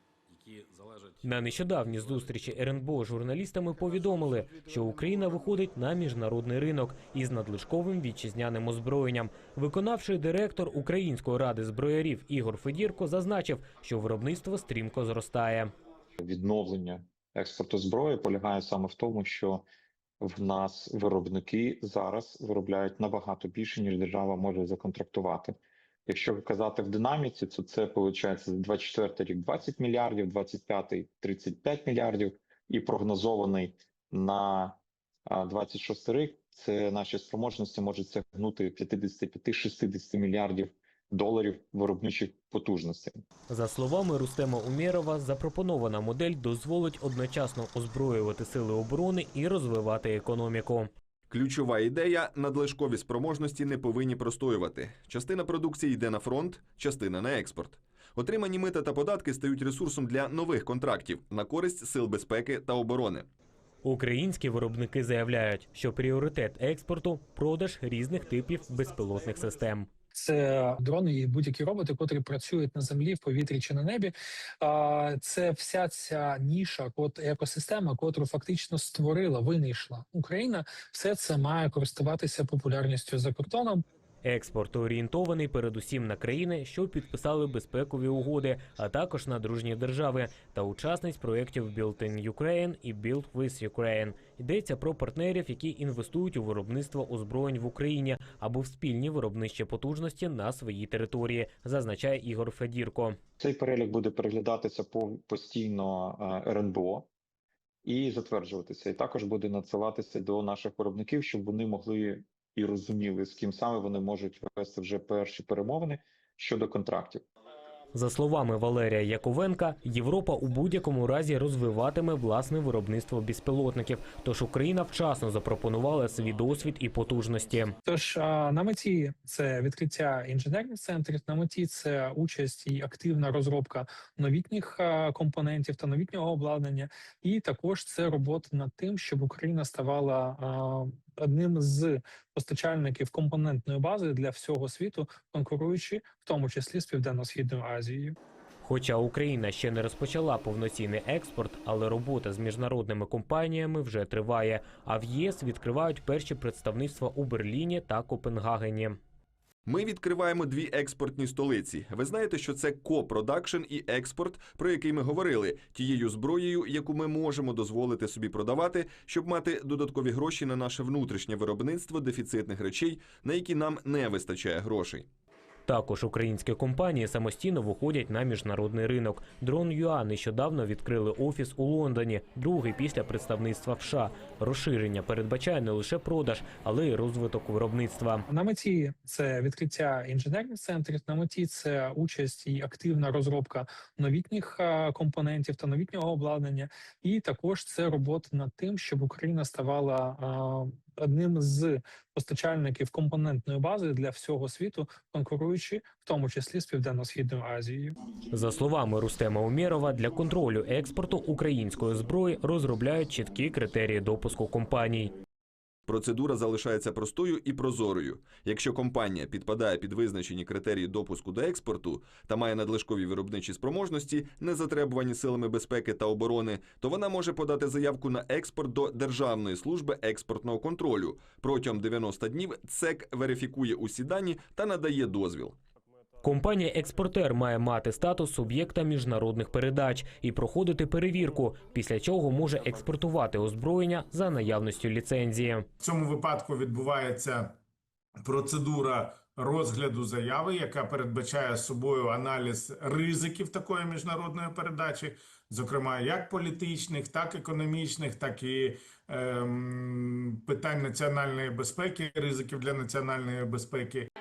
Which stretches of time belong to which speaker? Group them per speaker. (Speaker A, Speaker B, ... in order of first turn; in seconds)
Speaker A: 1.2-15.7, 43.5-50.9, 63.8-69.9, 84.2-103.2, 117.9-127.8, 148.6-159.0, 175.7-188.2, 208.3-215.2, 236.2-245.7
Speaker B: 16.2-19.6, 20.2-25.6, 26.1-43.2, 103.4-107.1, 107.8-117.2
Speaker C: 51.3-63.3, 159.7-175.1, 215.9-235.6
Speaker D: 70.2-83.8, 127.9-148.2, 188.3-208.0
Speaker E: 245.8-247.6, 248.2-264.1